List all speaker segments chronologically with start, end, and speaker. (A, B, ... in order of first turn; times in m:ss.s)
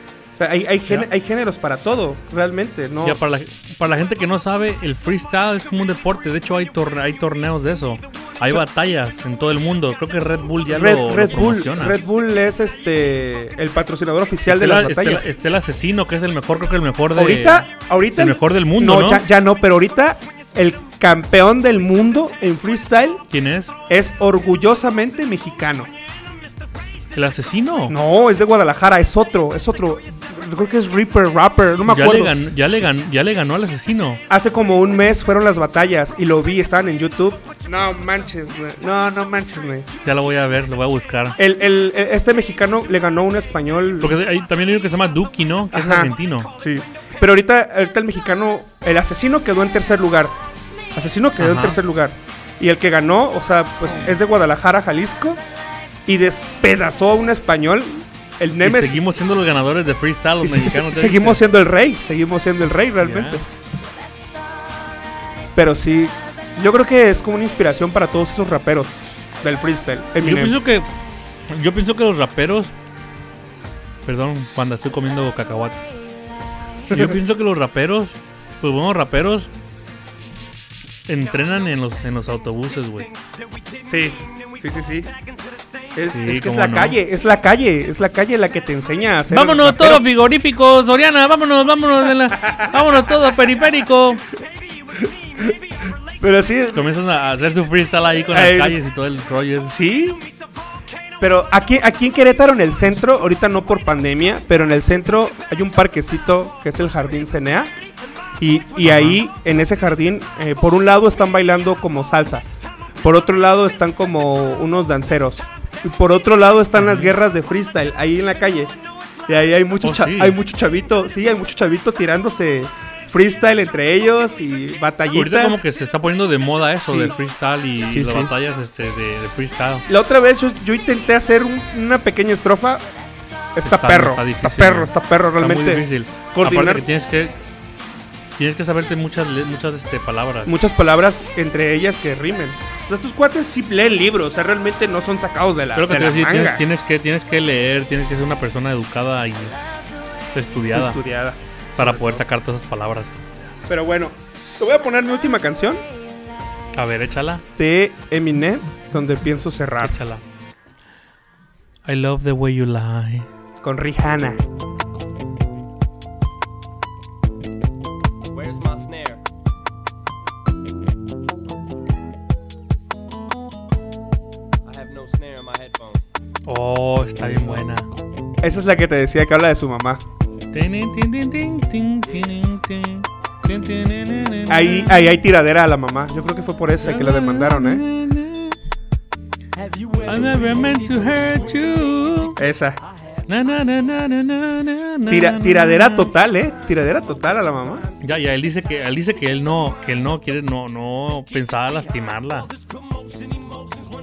0:00.4-0:03.2 A
0:03.0-0:12.0 B
0:10.7-0:15.3 A
0:14.4-0:19.2 B
0:17.1-0:23.2 A
0:23.3-0:23.7 B
0:23.9-0:25.9 A
0:27.1-0:28.0 B
0:27.9-0:32.4 A
0:31.8-0:34.2 B
0:34.3-0:39.9 A
0:40.0-0:41.4 B
0:41.4-0:44.2 A
0:44.0-0:46.5 B
0:45.7-0:50.4 A
0:50.9-0:55.4 A
0:51.4-0:51.8 B
0:53.9-0:54.2 B
0:56.0-0:59.1 A
0:58.6-1:01.4 B
1:00.4-1:03.5 A
1:03.0-1:03.4 B
1:05.5-1:10.6 A
1:10.2-1:10.9 B
1:11.5-1:12.7 B
1:14.0-1:15.8 B
1:16.9-1:17.2 A
1:16.9-1:19.5 B
1:21.1-1:23.1 B
1:23.8-1:25.1 A
1:25.9-1:30.0 A
1:26.1-1:27.0 B
1:29.3-1:34.2 B
1:36.2-1:36.8 A
1:36.7-1:39.7 B
1:38.3-1:38.8 A
1:39.7-1:40.2 A
1:41.2-1:47.7 A
1:48.4-1:52.4 A
1:48.8-1:49.2 B
1:53.0-1:58.7 A
1:56.8-1:57.1 B
1:59.3-2:05.6 A
1:59.8-2:00.4 B
2:05.1-2:09.9 B
2:06.8-2:07.1 A
2:07.8-2:08.3 A
2:09.9-2:12.8 A
2:13.5-2:16.8 A
2:13.6-2:17.4 B
2:18.4-2:20.5 B
2:20.4-2:26.6 A
2:25.7-2:29.6 B
2:30.3-2:31.0 B
2:30.7-2:32.2 A
2:31.8-2:33.5 B
2:33.7-2:35.8 A
2:36.7-2:37.4 B
2:37.6-2:40.0 A
2:39.8-2:40.2 B
2:41.8-2:43.3 B
2:43.6-2:44.4 A
2:48.3-2:49.2 C
2:54.6-2:56.1 C
2:56.4-2:57.9 B
2:58.4-3:00.0 A
3:00.5-3:05.1 B
3:04.5-3:07.8 A
3:06.8-3:08.6 B
3:10.0-3:12.4 B
3:12.4-3:12.8 A
3:13.3-3:16.1 B
3:15.1-3:17.9 A
3:18.0-3:22.5 B